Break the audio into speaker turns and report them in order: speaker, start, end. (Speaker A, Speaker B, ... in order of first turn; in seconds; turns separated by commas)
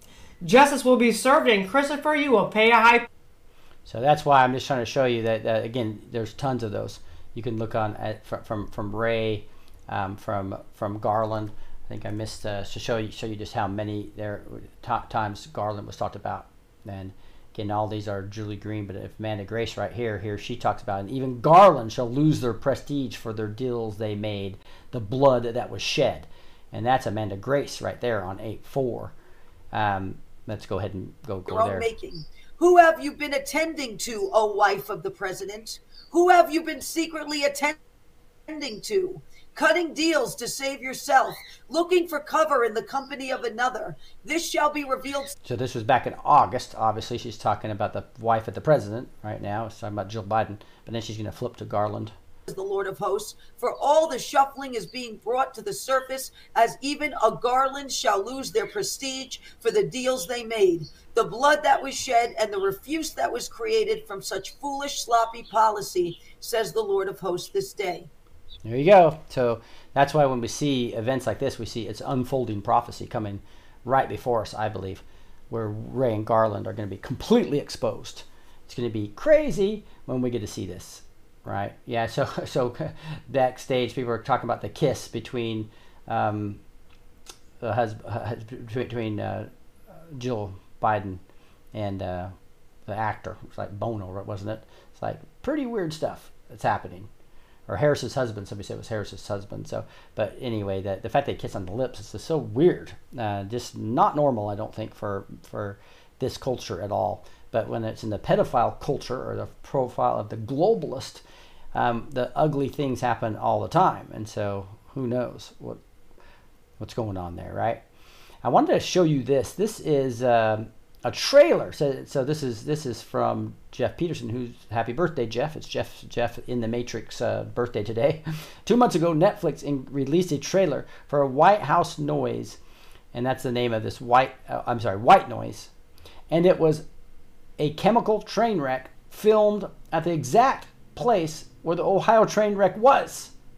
Speaker A: 0.4-3.1, Speaker B: 3.9-29.1, Speaker B: 29.7-31.9, Speaker C: 31.5-37.8, Speaker C: 38.5-45.3, Speaker B: 45.4-52.1, Speaker C: 52.5-68.1, Speaker B: 68.6-86.6, Speaker B: 87.6-89.5, Speaker B: 90.1-91.2, Speaker B: 91.7-92.3, Speaker B: 92.9-97.1, Speaker B: 97.7-111.2, Speaker B: 111.7-115.8, Speaker B: 116.8-117.8, Speaker B: 118.4-132.6, Speaker B: 133.1-135.7, Speaker B: 136.3-136.9, Speaker B: 137.6-143.3